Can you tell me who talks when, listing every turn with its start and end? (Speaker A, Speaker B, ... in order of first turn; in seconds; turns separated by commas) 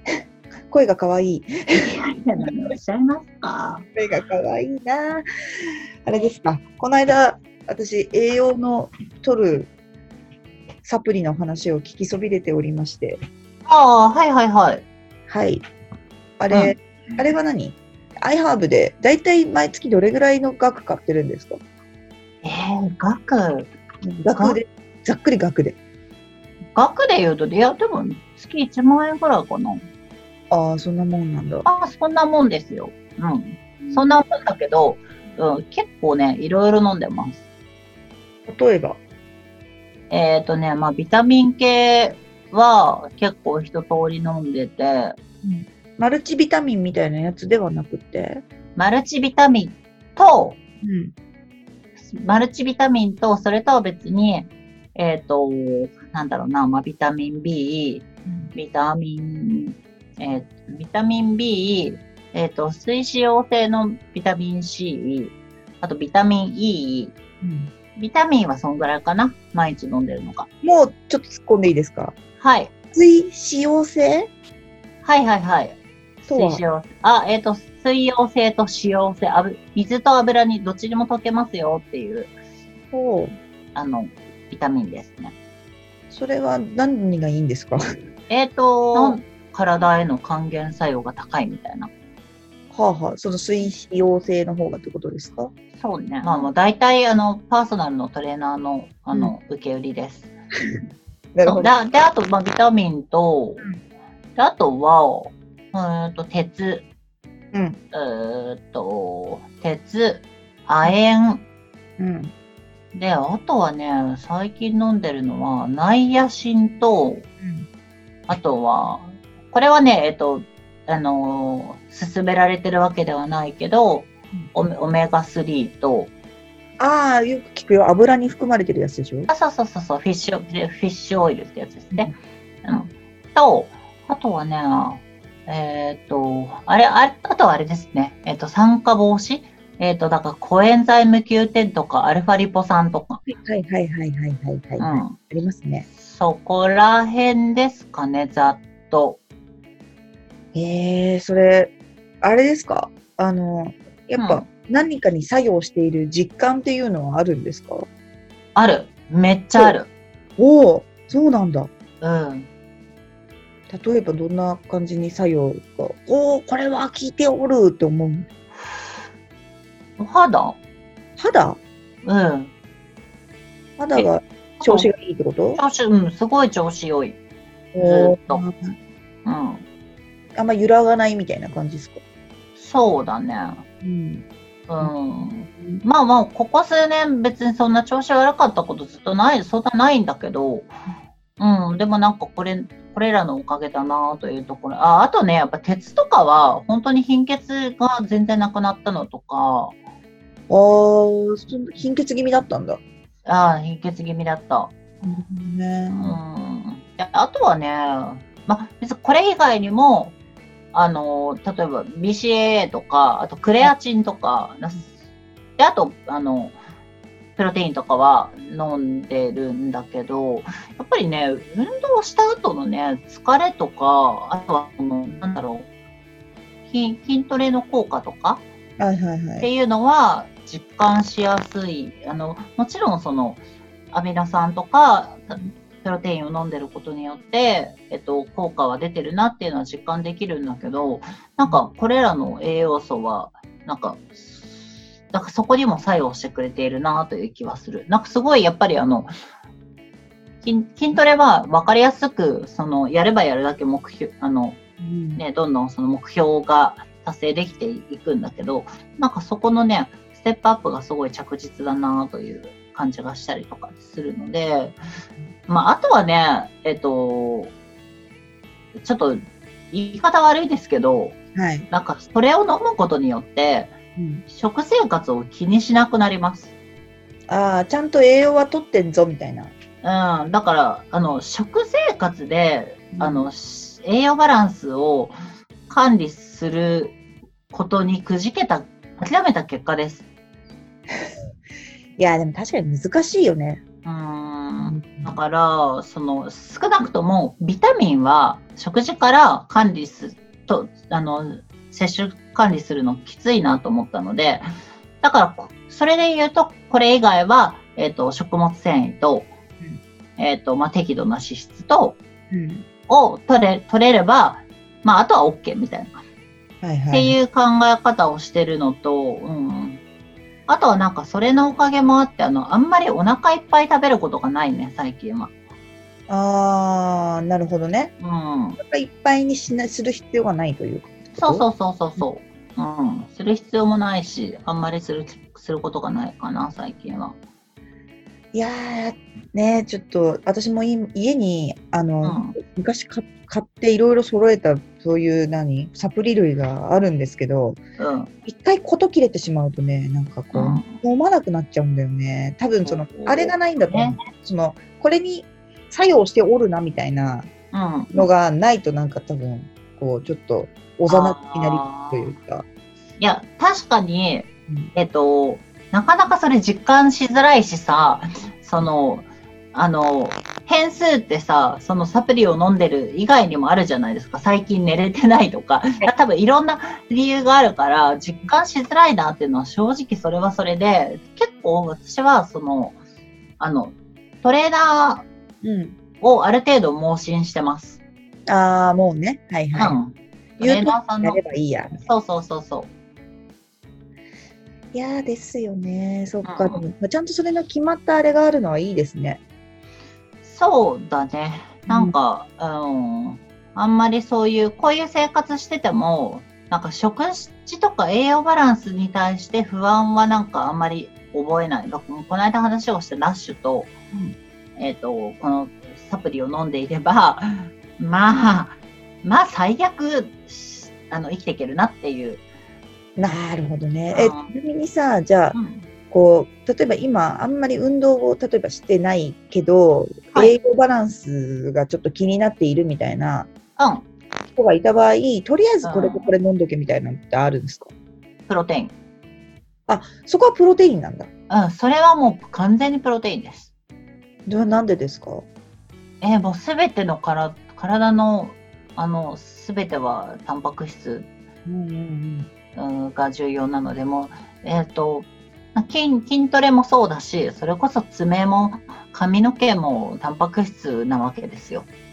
Speaker A: 0.7-1.5, Speaker B: 1.8-3.8, Speaker A: 4.0-5.2, Speaker A: 6.1-9.7, Speaker A: 10.8-13.2, Speaker B: 13.7-14.8, Speaker A: 15.3-15.6, Speaker A: 16.4-21.6, Speaker B: 16.5-16.8, Speaker B: 22.4-23.7, Speaker A: 24.0-25.8, Speaker B: 24.4-24.6, Speaker B: 26.8-29.8, Speaker A: 30.5-31.7, Speaker B: 31.6-37.4, Speaker A: 38.5-39.0, Speaker B: 40.1-45.2, Speaker A: 45.4-48.4, Speaker B: 48.8-50.6, Speaker A: 50.8-51.1, Speaker B: 52.0-67.2, Speaker A: 67.4-67.7, Speaker B: 68.0-70.5, Speaker A: 70.6-72.1, Speaker B: 72.4-72.7, Speaker A: 72.9-74.3, Speaker B: 75.0-82.3, Speaker A: 76.3-76.6, Speaker A: 82.9-83.3, Speaker B: 83.7-85.3, Speaker A: 86.1-87.8, Speaker B: 88.3-91.9, Speaker A: 88.9-89.2, Speaker A: 92.7-95.5, Speaker B: 95.8-100.3, Speaker A: 96.2-96.5, Speaker A: 101.3-101.7, Speaker B: 101.4-103.6, Speaker B: 104.3-106.9, Speaker A: 107.5-107.8, Speaker B: 107.9-111.4, Speaker A: 112.0-112.3, Speaker B: 112.9-117.2, Speaker A: 117.4-117.7, Speaker B: 118.3-126.1, Speaker A: 126.8-129.3, Speaker B: 129.3-132.1, Speaker B: 132.6-143.2, Speaker A: 143.3-145.9, Speaker B: 144.8-145.2, Speaker B: 146.0-149.2, Speaker A: 150.5-157.9, Speaker B: 154.2-154.5, Speaker B: 158.6-159.9, Speaker A: 160.4-161.7, Speaker B: 162.0-162.5, Speaker A: 163.7-168.3, Speaker B: 170.0-170.6, Speaker A: 171.2-171.6, Speaker B: 172.0-172.5, Speaker A: 173.8-175.6, Speaker B: 173.9-174.9, Speaker B: 175.6-177.2, Speaker A: 177.7-178.7, Speaker B: 177.8-178.4, Speaker B: 179.2-179.7, Speaker A: 180.3-182.0, Speaker B: 182.6-183.7, Speaker A: 183.8-184.2, Speaker B: 184.7-190.7, Speaker B: 191.4-199.8, Speaker A: 200.5-202.8, Speaker B: 203.2-204.7, Speaker A: 205.0-206.2, Speaker B: 205.9-210.2, Speaker B: 210.7-214.9, Speaker B: 215.6-216.6, Speaker B: 217.4-225.7, Speaker B: 226.7-228.4, Speaker A: 228.8-229.5, Speaker B: 229.4-249.1, Speaker B: 250.4-254.6, Speaker A: 254.8-255.2, Speaker B: 255.2-264.8, Speaker B: 265.5-267.5, Speaker B: 268.8-271.2, Speaker A: 271.4-271.7, Speaker B: 271.7-273.8, Speaker A: 274.0-274.2, Speaker B: 274.3-276.5, Speaker A: 277.3-279.5, Speaker B: 279.8-286.9, Speaker A: 282.9-283.3, Speaker B: 287.5-290.1, Speaker A: 292.0-293.6, Speaker B: 293.8-304.5, Speaker A: 294.6-295.1, Speaker B: 305.0-309.3, Speaker B: 310.2-312.0, Speaker A: 312.3-312.6, Speaker B: 312.9-316.0, Speaker A: 316.6-317.2, Speaker B: 316.9-319.8, Speaker B: 320.5-325.3, Speaker A: 326.1-327.9, Speaker B: 328.0-328.6, Speaker A: 328.6-331.4, Speaker B: 331.1-337.2, Speaker A: 338.3-347.6, Speaker B: 342.0-342.4, Speaker B: 347.8-348.1, Speaker A: 348.2-357.3, Speaker B: 350.3-350.8, Speaker B: 352.6-354.0, Speaker B: 357.5-358.1, Speaker A: 357.9-362.4, Speaker B: 360.9-362.1, Speaker B: 363.0-382.8, Speaker B: 383.4-385.1, Speaker A: 385.4-385.8, Speaker B: 386.0-387.8, Speaker A: 388.3-389.8, Speaker B: 389.5-391.2, Speaker A: 390.4-391.9, Speaker B: 391.8-392.7, Speaker A: 394.7-399.2, Speaker B: 396.2-396.6, Speaker B: 400.2-413.7, Speaker A: 401.7-401.9, Speaker B: 414.6-422.2, Speaker A: 423.0-425.4, Speaker B: 423.9-424.3, Speaker B: 425.3-425.7, Speaker A: 425.9-433.3, Speaker B: 433.6-433.8, Speaker A: 434.3-437.7, Speaker B: 435.6-436.1, Speaker B: 438.3-438.7, Speaker A: 439.7-441.1, Speaker B: 441.3-443.5, Speaker A: 444.2-445.2, Speaker B: 446.0-451.1, Speaker A: 451.5-452.3, Speaker B: 452.5-461.7